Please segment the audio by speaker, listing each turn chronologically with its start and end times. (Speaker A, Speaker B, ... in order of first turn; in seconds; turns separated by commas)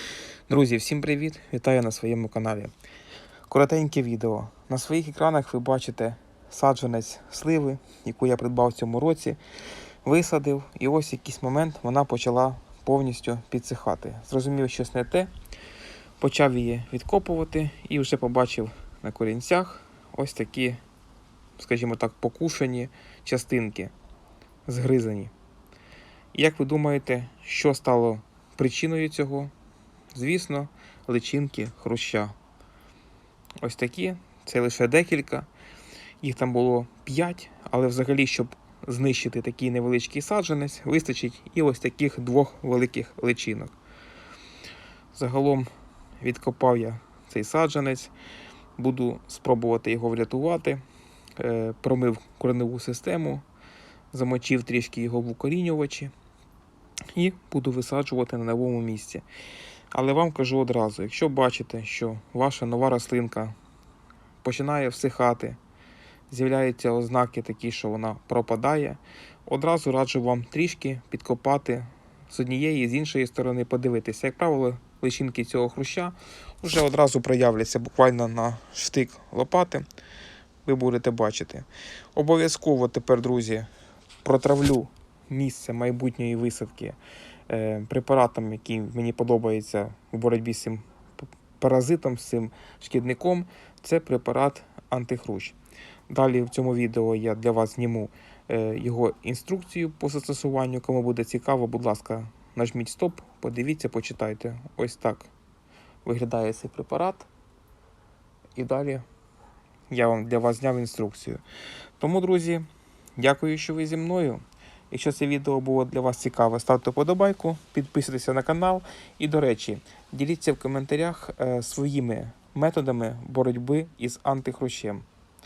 Speaker A: 0.5-2.7, Speaker A: 3.5-9.4, Speaker A: 10.0-15.3, Speaker A: 16.2-20.8, Speaker A: 21.6-23.9, Speaker A: 24.6-25.3, Speaker A: 26.3-29.5, Speaker A: 30.1-32.4, Speaker A: 33.6-35.5, Speaker A: 36.2-43.7, Speaker A: 45.1-45.7, Speaker A: 46.2-48.1, Speaker A: 48.8-50.8, Speaker A: 51.4-53.4, Speaker A: 54.1-56.1, Speaker A: 57.1-59.2, Speaker A: 59.9-63.5, Speaker A: 64.4-65.6, Speaker A: 66.3-79.8, Speaker A: 80.6-83.7, Speaker A: 84.2-87.0, Speaker A: 87.5-90.8, Speaker A: 91.6-95.5, Speaker A: 96.1-105.3, Speaker A: 106.0-107.3, Speaker A: 108.5-109.0, Speaker A: 109.9-111.4, Speaker A: 112.0-112.6, Speaker A: 113.2-125.0